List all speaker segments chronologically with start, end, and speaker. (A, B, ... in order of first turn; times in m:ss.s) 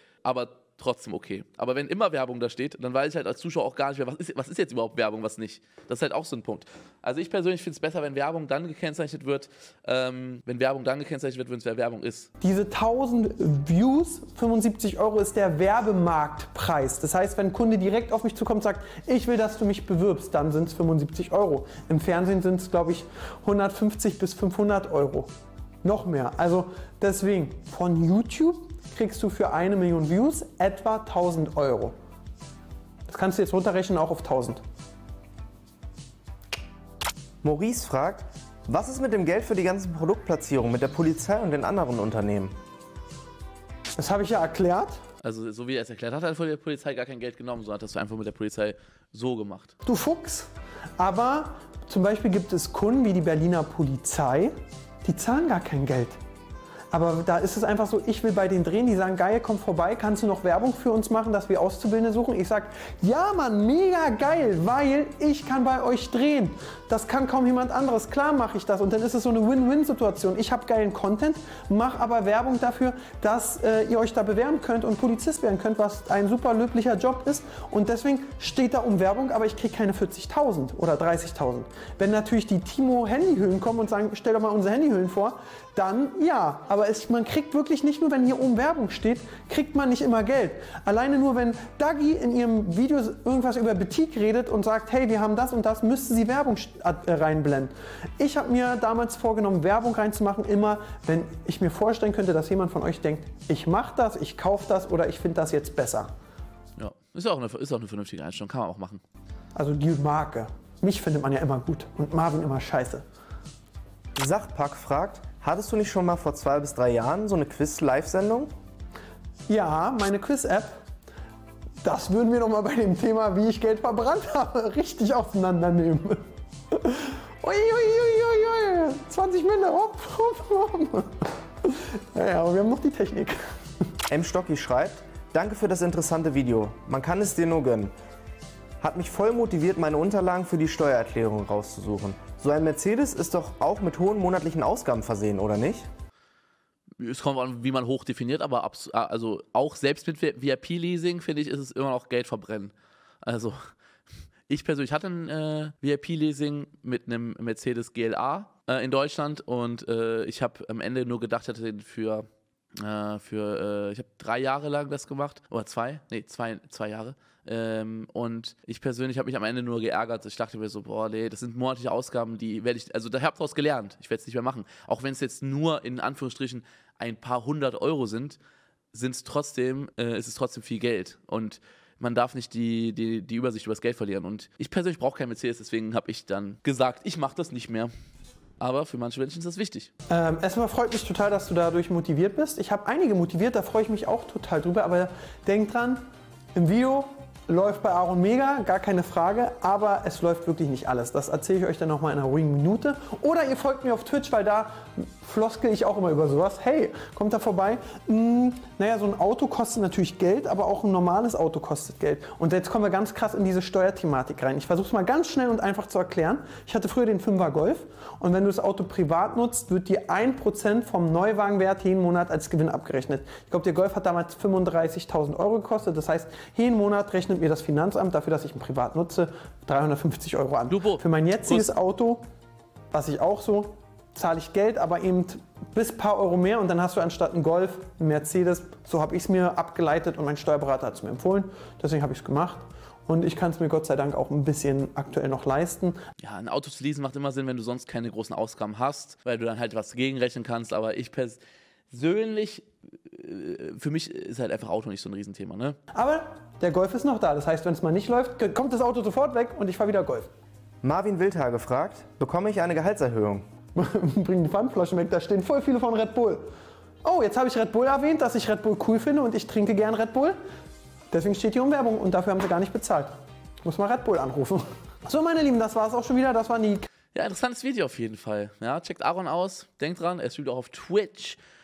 0:00.2-0:12.3 A
0:12.4-0:25.3 B
0:25.8-0:31.9 B
0:33.1-0:34.6 B
0:37.4-0:42.5 C
0:44.0-0:45.0 B
0:45.2-0:49.7 A
0:49.8-0:54.5 B
0:55.0-0:56.2 B
0:56.9-1:46.1 B
1:46.8-1:49.0 A
1:49.6-1:53.0 B
1:54.2-1:58.5 C
1:59.5-2:00.7 B
2:01.8-2:13.4 B
2:14.1-2:17.9 C
2:18.8-2:25.9 C
2:27.0-2:33.6 A
2:34.5-2:42.3 A
2:42.8-2:58.4 A
2:58.9-3:07.9 A
3:08.6-3:09.9 A
3:10.1-3:16.0 B
3:16.6-3:52.2 B
3:50.7-3:51.7 A
3:52.9-4:06.0 B
4:06.2-4:15.8 A
4:15.9-4:20.3 B
4:20.8-4:23.4 C
4:23.8-4:26.4 B
4:27.0-4:30.4 B
4:31.1-4:33.1 B
4:33.6-4:36.9 B
4:37.1-4:41.4 A